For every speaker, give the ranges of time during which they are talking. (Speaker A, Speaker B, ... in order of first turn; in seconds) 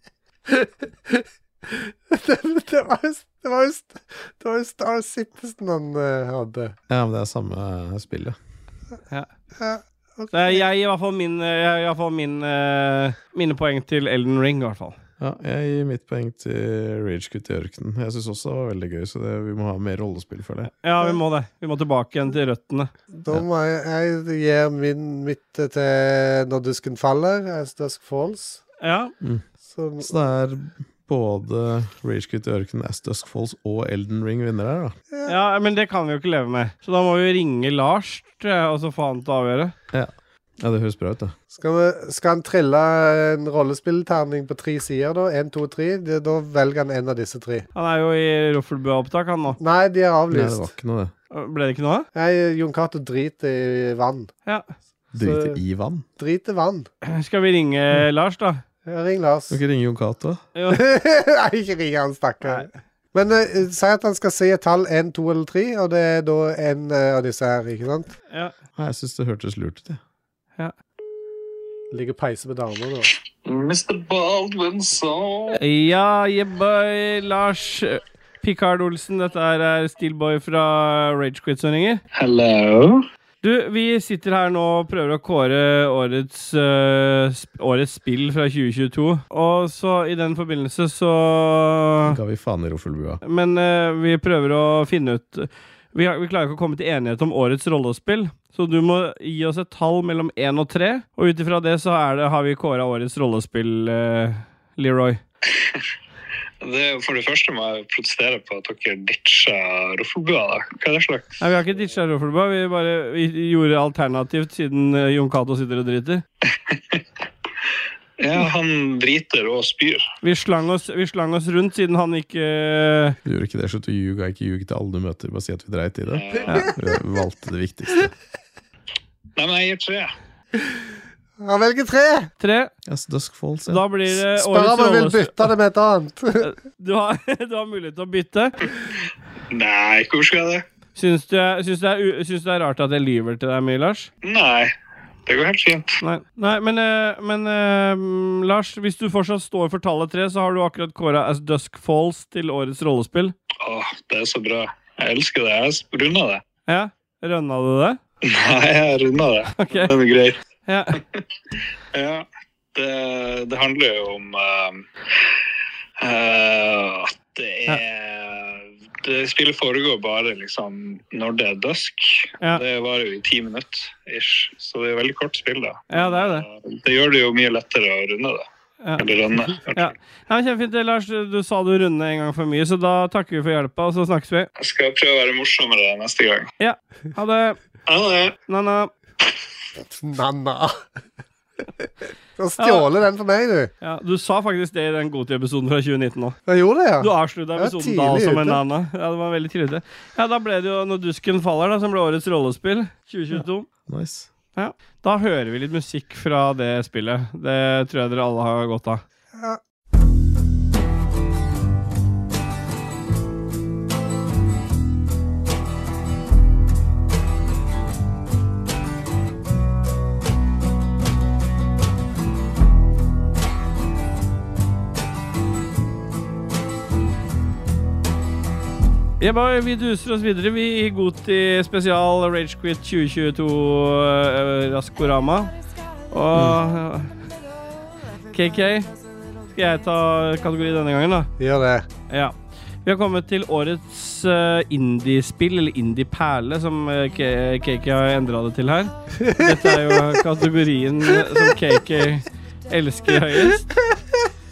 Speaker A: 0.5-6.8, 9.6-10.6, 23.2-28.6, 29.6-30.1, 41.5-47.6, 49.6-50.7, 52.1-54.3, 55.2-55.6, 56.2-56.9, 58.9-59.6, 60.7-68.1, 71.9-73.1, 131.4-132.3, 134.3-136.5, 189.9-190.7, 191.8-193.7, 196.5-198.6, 241.4-241.9, 249.2-250.0
Speaker B: 6.9-8.4, 15.2-20.7, 30.0-35.0, 39.9-41.3, 50.3-51.1, 55.1-56.0, 59.5-60.4, 68.8-70.0, 92.0-93.2, 123.2-128.1, 132.9-133.9, 203.3-204.3, 236.3-236.6
Speaker C: 10.3-15.0, 20.8-22.9, 28.8-29.1, 35.2-39.7, 47.7-49.6, 51.3-52.1, 57.0-58.6, 60.6-60.8, 75.5-82.0, 83.4-92.2, 93.2-105.2, 111.4-116.2, 120.2-123.2, 132.4-132.7, 133.7-135.5, 136.4-138.7, 140.9-144.1, 146.0-153.3, 156.7-158.0, 159.6-159.9, 160.7-161.0, 175.9-176.4, 178.8-179.1, 179.7-184.5, 186.6-187.6, 188.5-188.9, 192.6-192.9, 193.8-196.4, 197.0-203.7, 204.6-209.0, 229.2-235.5, 236.1-237.2, 238.3-238.9, 239.5-241.3, 242.1-253.7
Speaker D: 73.5-75.6, 82.1-83.0, 106.6-111.4, 116.7-117.0, 118.2-120.1, 126.1-126.6, 129.4-130.1, 139.5-140.6, 144.2-144.7, 145.3-146.0, 153.6-156.4, 158.2-160.4, 161.9-164.9, 166.0-179.9, 184.6-186.5, 187.9-188.4